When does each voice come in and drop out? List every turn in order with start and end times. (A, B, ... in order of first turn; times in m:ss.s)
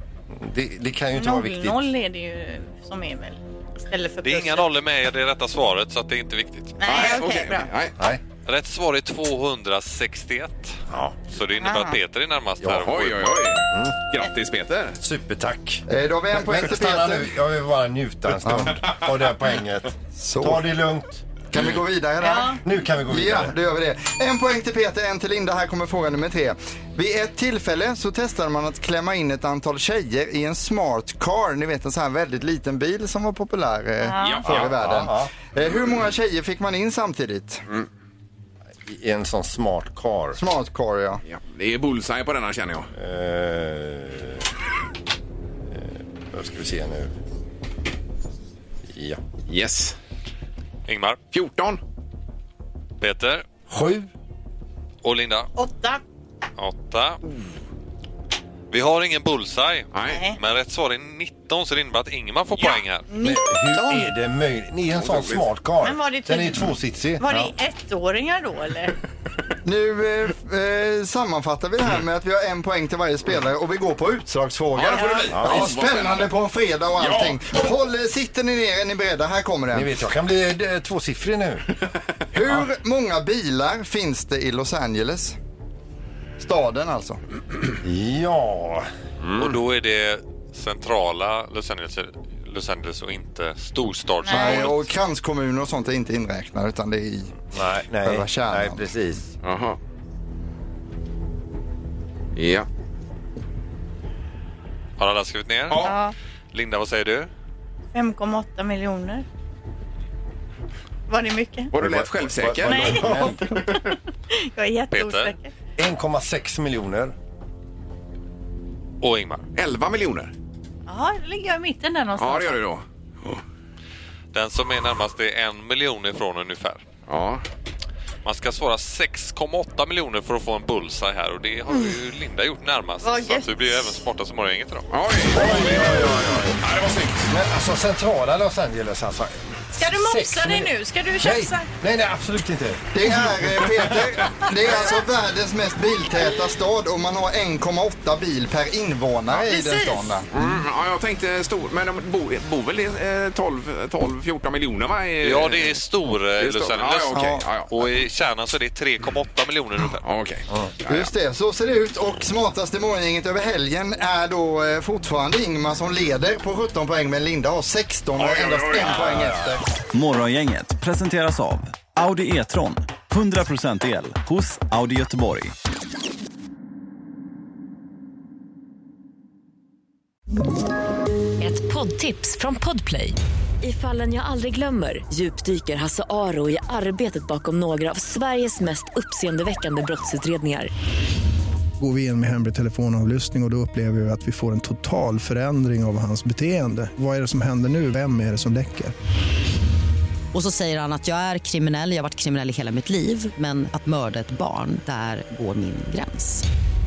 0:00.3-0:01.8 A
0:01.1-0:04.7 B
0:04.2-0:06.8 C
0:06.8-0:07.7 B
0:06.8-0:07.9 D
0:08.4-0:13.3 C
0:10.9-0:11.2 A
0:11.6-0:12.0 B
0:12.6-0:13.9 A
0:12.8-0:15.0 D
0:15.0-0:21.3 A
0:15.9-0:17.3 E
0:18.4-0:18.8 E
0:20.2-0:20.6 E
0:21.5-0:37.6 E
0:22.2-0:22.6 B
0:22.6-0:23.5 A
0:34.0-0:34.4 B
0:34.2-0:35.0 D
0:34.8-0:35.3 A
0:38.8-0:40.4 A
0:40.3-0:41.2 E
0:41.2-0:42.9 D
0:42.9-0:44.5 A
0:45.7-0:47.1 A
0:48.8-0:49.2 A
0:49.4-0:50.0 D
0:50.9-0:51.2 C
0:51.3-0:51.8 D
0:53.0-0:53.4 C
0:53.7-0:54.1 A
0:55.0-0:55.5 C
0:55.6-0:56.0 B
0:56.6-0:57.2 C
0:58.7-1:03.0 C
0:59.9-1:00.2 D
1:00.0-1:00.4 B
1:02.6-1:04.1 B
1:03.2-1:07.5 A
1:04.9-1:05.5 D
1:05.8-1:08.9 B
1:09.6-1:19.9 E
1:14.7-1:16.3 D
1:15.3-1:15.7 A
1:17.0-1:17.4 D
1:19.7-1:21.6 A
1:22.3-1:25.4 E
1:26.4-1:27.2 E
1:27.8-1:28.9 A
1:29.4-1:34.9 C
1:34.2-1:34.7 B
1:34.3-1:37.4 E
1:37.5-1:39.3 A
1:38.0-1:38.8 E
1:39.4-1:39.8 D
1:42.3-1:42.7 D
1:45.0-1:46.0 C
1:45.7-1:45.9 D
1:45.8-1:46.1 B
1:46.5-1:47.3 C
1:47.9-1:49.2 B
1:51.1-1:51.7 B
1:51.7-1:53.8 D
1:51.8-1:53.4 A
1:52.6-1:53.3 B
1:54.3-1:55.5 B
1:54.9-1:55.3 C
1:55.8-1:57.1 A
1:59.0-1:59.5 C
1:59.6-2:00.3 D
2:00.9-2:02.6 B
2:02.2-2:03.4 D
2:04.3-2:06.8 C
2:07.1-2:07.4 D
2:08.2-2:14.9 C
2:13.0-2:14.0 B
2:14.9-2:17.3 D
2:15.3-2:16.6 A
2:17.3-2:24.1 A
2:19.7-2:21.7 B
2:22.9-2:30.3 E
2:29.4-2:30.1 B
2:30.3-2:35.7 D
2:35.2-2:40.0 C
2:36.4-2:37.8 D
2:37.1-2:37.4 E
2:40.0-2:41.1 D
2:40.9-2:49.6 E
2:48.2-2:49.0 D
2:48.9-2:49.6 A
2:49.9-2:55.5 F
3:01.4-3:10.7 G
3:11.8-3:18.9 H
3:20.3-3:26.4 I